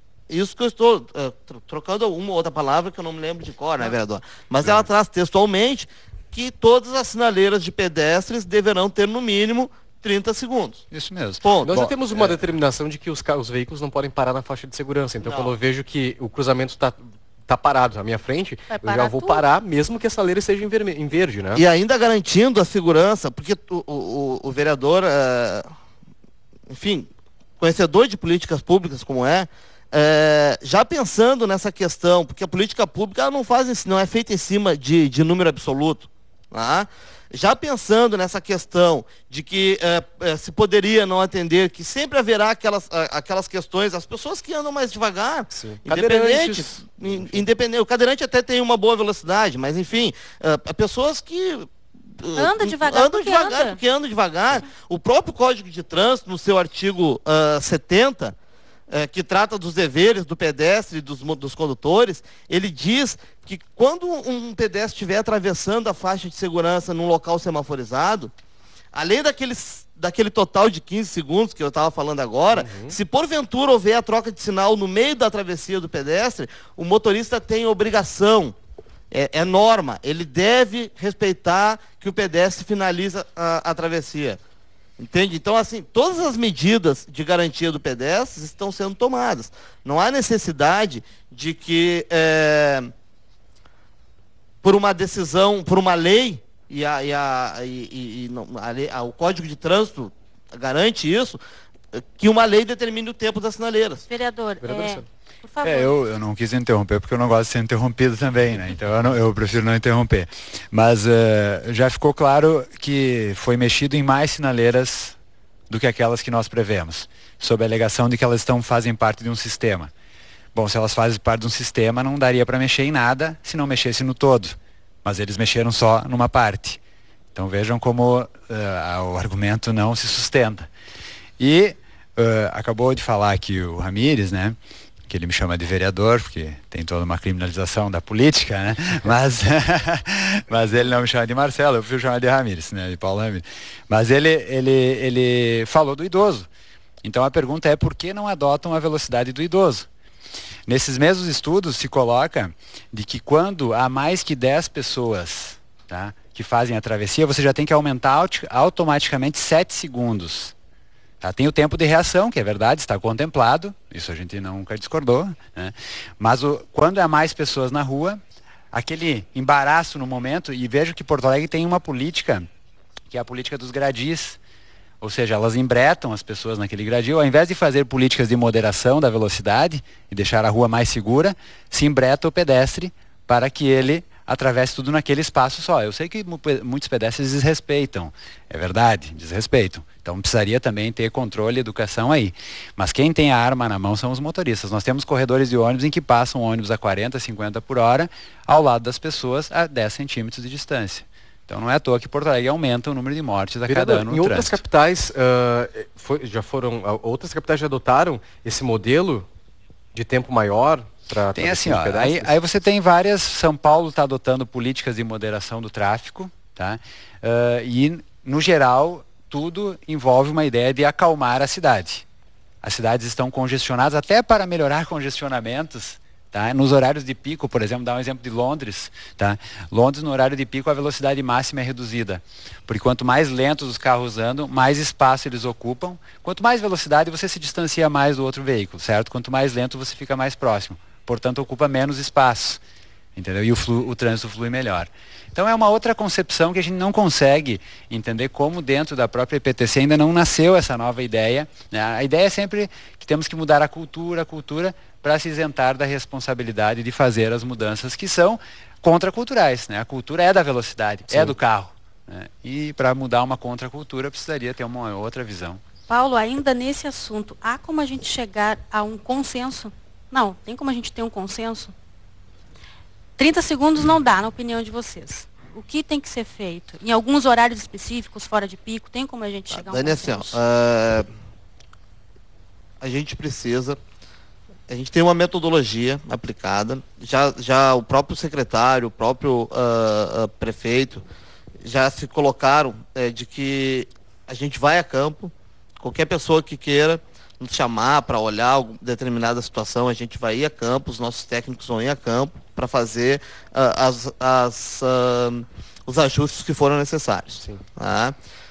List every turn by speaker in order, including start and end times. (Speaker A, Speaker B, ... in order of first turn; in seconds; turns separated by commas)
Speaker A: 0.3-10.8, Speaker B: 10.9-12.3, Speaker A: 11.4-11.8, Speaker C: 11.6-21.6, Speaker A: 15.2-15.6, Speaker D: 18.7-19.4, Speaker A: 21.6-25.7, Speaker A: 26.7-27.1, Speaker A: 27.6-58.4, Speaker C: 45.5-47.5, Speaker D: 52.4-53.8, Speaker A: 58.9-68.3, Speaker A: 68.9-78.6, Speaker C: 72.5-73.0, Speaker A: 79.1-84.4, Speaker A: 85.0-92.9, Speaker A: 94.6-101.4, Speaker A: 101.9-104.0, Speaker D: 104.1-105.9, Speaker C: 104.6-105.0, Speaker B: 105.6-115.2, Speaker B: 115.7-119.9, Speaker B: 120.5-126.8, Speaker B: 127.3-130.7, Speaker B: 131.4-134.6, Speaker B: 135.1-146.5, Speaker B: 147.0-149.9, Speaker B: 150.7-160.5, Speaker B: 161.2-168.2, Speaker B: 168.7-172.5, Speaker B: 173.1-174.4, Speaker B: 175.0-204.6, Speaker C: 203.7-209.3, Speaker C: 209.9-212.3, Speaker B: 211.3-222.1, Speaker B: 222.6-242.6, Speaker B: 243.2-265.6, Speaker D: 265.9-271.7, Speaker D: 273.2-280.4, Speaker A: 279.5-281.1, Speaker A: 282.8-283.8, Speaker A: 284.7-291.1, Speaker A: 291.6-308.1